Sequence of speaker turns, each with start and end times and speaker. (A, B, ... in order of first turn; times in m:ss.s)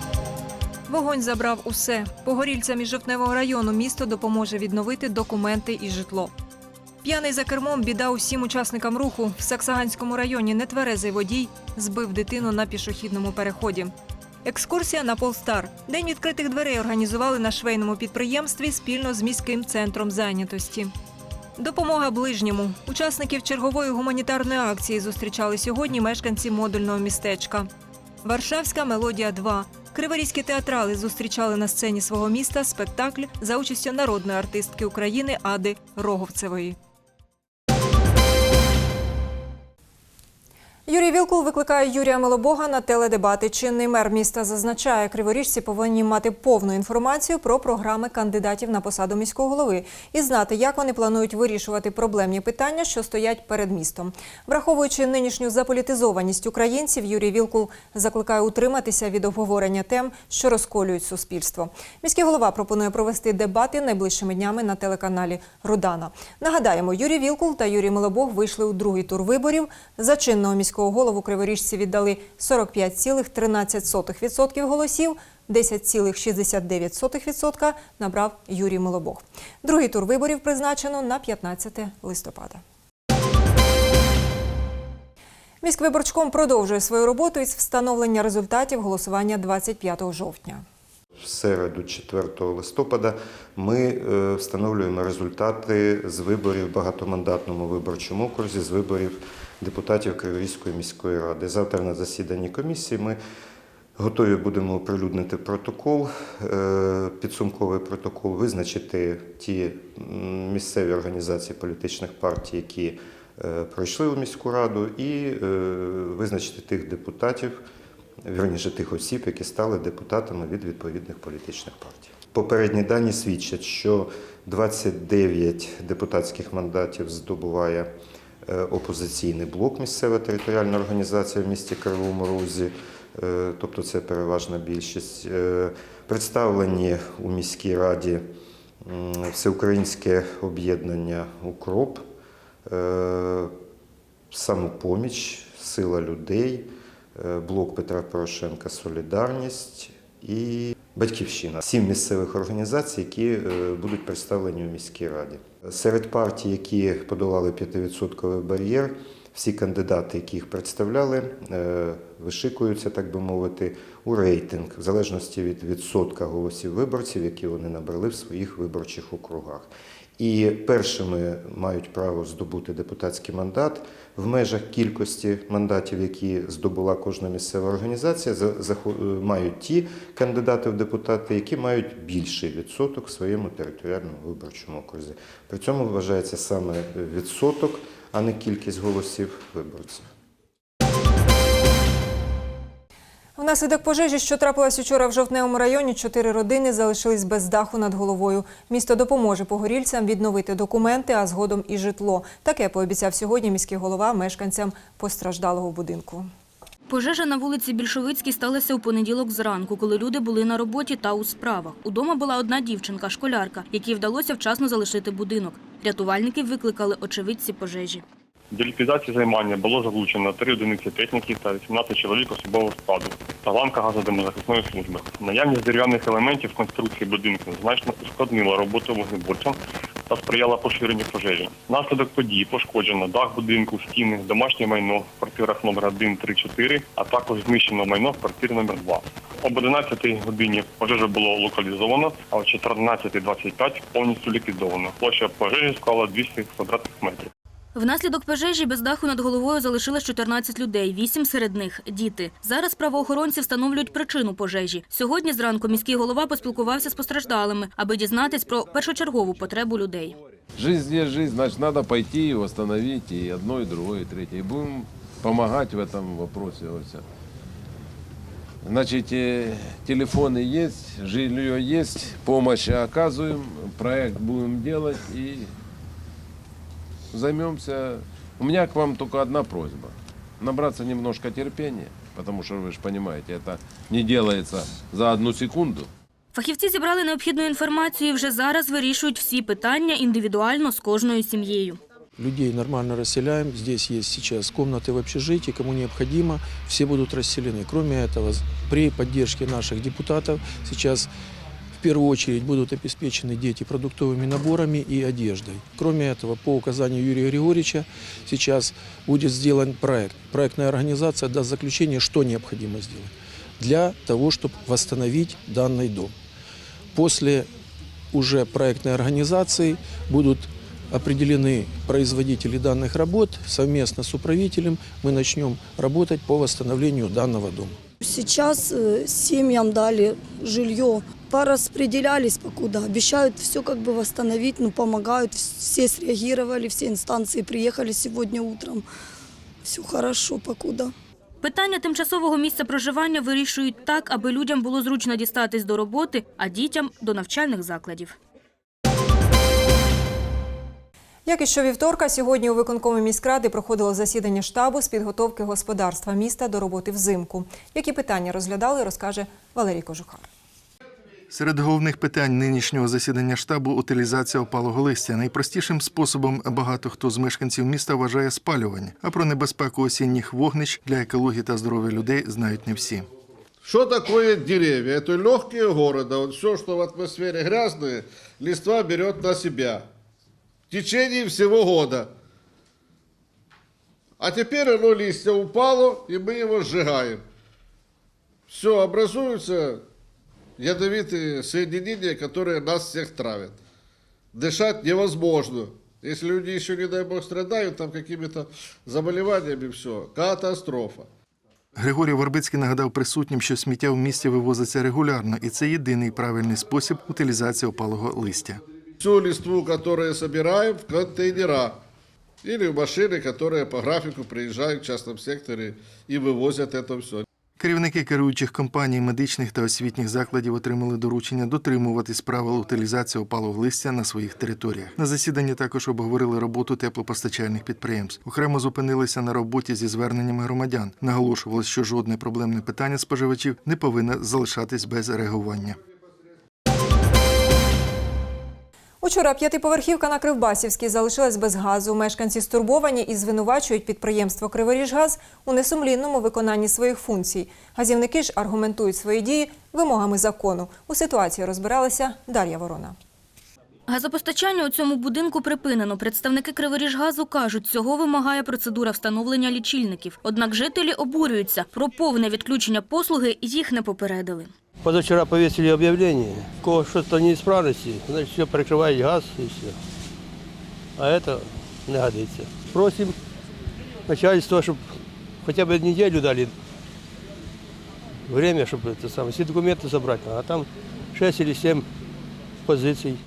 0:00.9-0:06.3 A
0:07.0-0:13.9 A
0:14.4-0:20.9 A
0:21.6-0:27.7 A
0:28.2-0:36.8 A
0:40.9-1:22.6 A
1:25.6-1:30.6 A
1:31.2-1:43.2 B
1:44.0-1:57.6 B
1:58.2-2:07.9 B
2:08.4-2:18.3 B
2:18.8-2:22.0 B
2:22.7-2:23.5 B
2:24.3-3:10.1 B
3:13.4-3:26.3 A
3:26.9-3:38.0 C
3:38.5-3:49.6 D
3:50.1-4:07.3 D
4:07.8-4:20.2 C
4:20.6-4:27.0 E
4:28.6-4:35.5 E
4:37.1-4:45.9 E
4:46.3-4:51.8 C
4:52.2-5:01.1 F
5:01.8-5:16.1 F
5:16.9-5:17.5 F
5:18.1-5:27.8 F
5:28.0-5:38.8 G
5:39.6-5:40.9 G
5:41.4-5:48.2 C
5:51.3-6:00.3 A
6:01.3-6:13.1 H
6:13.6-6:19.9 I
6:20.7-6:22.1 I
6:24.2-6:27.2 I
6:28.5-6:29.8 I
6:30.6-6:33.6 I
6:34.3-6:41.1 I
6:41.8-6:48.6 H
6:49.0-6:51.8 I
6:52.4-6:57.2 I
6:57.6-7:15.8 H
7:19.0-7:33.0 A
7:33.9-7:44.5 C
7:44.8-7:49.7 J
7:51.0-7:53.1 J
7:54.1-7:54.8 J
7:55.4-7:56.5 J
7:58.3-8:01.8 J
8:02.7-8:03.2 J